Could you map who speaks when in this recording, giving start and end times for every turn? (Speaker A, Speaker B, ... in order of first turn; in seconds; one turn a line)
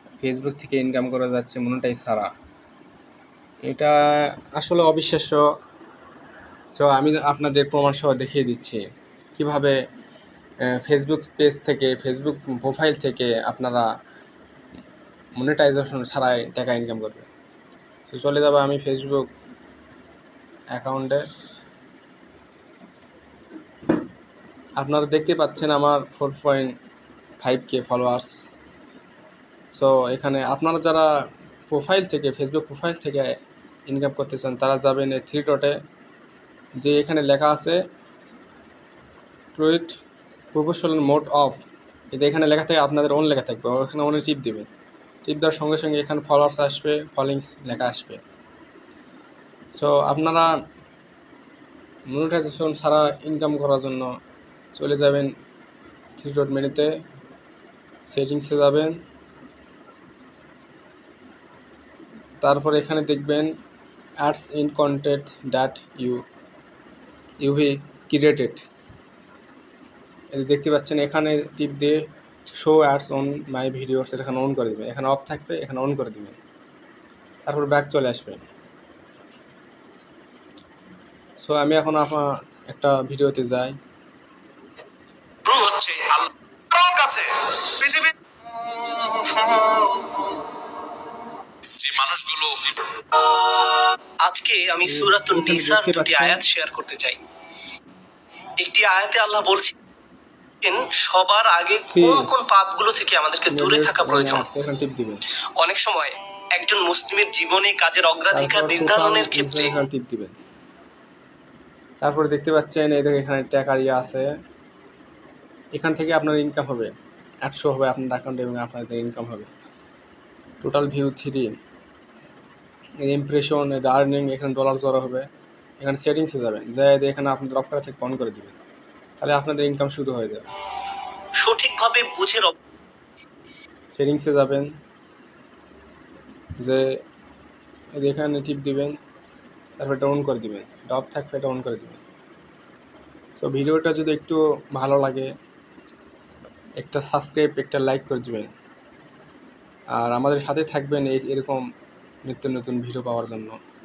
Speaker A: 0.2-2.3
Speaker A: 3.6-5.5
Speaker A: 6.7-8.8
Speaker A: 9.3-9.8
Speaker A: 10.7-13.9
Speaker A: 15.4-17.3
Speaker A: 18.1-19.3
Speaker A: 20.7-21.2
Speaker A: 24.8-26.7
Speaker A: 27.4-28.3
Speaker A: 29.7-31.1
Speaker A: 31.7-33.3
Speaker A: 33.9-35.7
Speaker A: 36.8-37.8
Speaker A: 39.5-40.0
Speaker A: 40.5-44.7
Speaker A: 45.2-48.2
Speaker A: 49.7-50.5
Speaker A: 52.1-54.1
Speaker A: 54.8-55.3
Speaker A: 56.2-56.9
Speaker A: 58.0-59.0
Speaker A: 62.4-63.5
Speaker A: 64.2-66.2
Speaker A: 67.4-68.6
Speaker A: 70.3-72.0
Speaker A: 72.5-76.4
Speaker A: 77.5-78.4
Speaker A: 81.4-83.8
Speaker B: 85.5-90.2
Speaker B: 91.8-92.8
Speaker C: 94.2-97.2
Speaker A: 94.8-96.4
Speaker C: 98.6-99.7
Speaker C: 100.6-104.5
Speaker A: 101.8-102.3
Speaker A: 103.5-105.2
Speaker C: 105.6-109.8
Speaker A: 108.3-110.3
Speaker A: 112.0-114.3
Speaker A: 115.7-119.5
Speaker A: 120.6-121.5
Speaker A: 123.0-125.3
Speaker A: 125.8-128.5
Speaker A: 129.2-130.5
Speaker C: 131.4-132.5
Speaker A: 133.9-134.7
Speaker A: 136.6-136.9
Speaker A: 138.0-138.9
Speaker A: 139.8-142.0
Speaker A: 143.4-145.3
Speaker A: 146.8-148.5
Speaker A: 149.9-151.6
Speaker A: 152.2-153.6